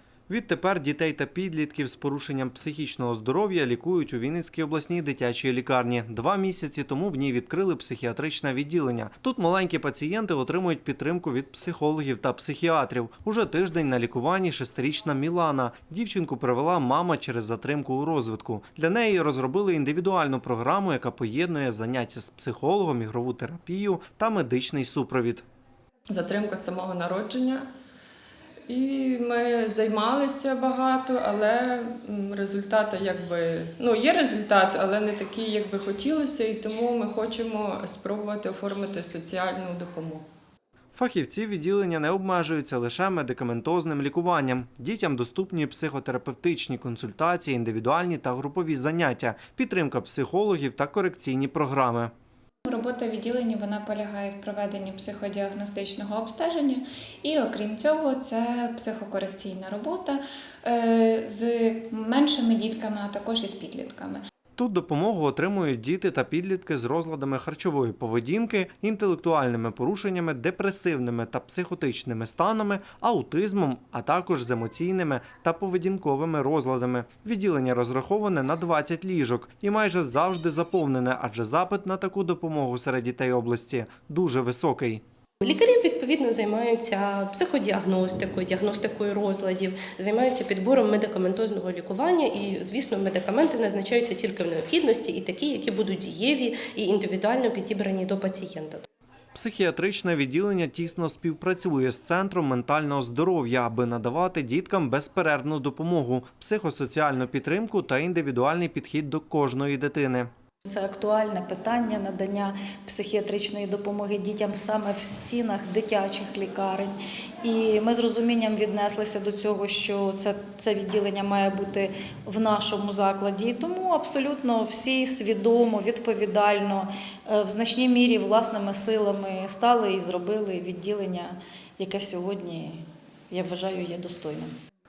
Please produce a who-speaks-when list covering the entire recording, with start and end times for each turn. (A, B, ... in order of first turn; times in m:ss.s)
0:00.3-0:25.4 A
0:26.1-0:27.7 B
0:28.7-0:40.3 B
0:41.0-0:52.1 A
0:52.7-1:04.2 C
1:04.6-1:25.0 A
1:25.4-1:38.9 D
1:39.4-1:50.3 A
1:50.7-2:14.5 E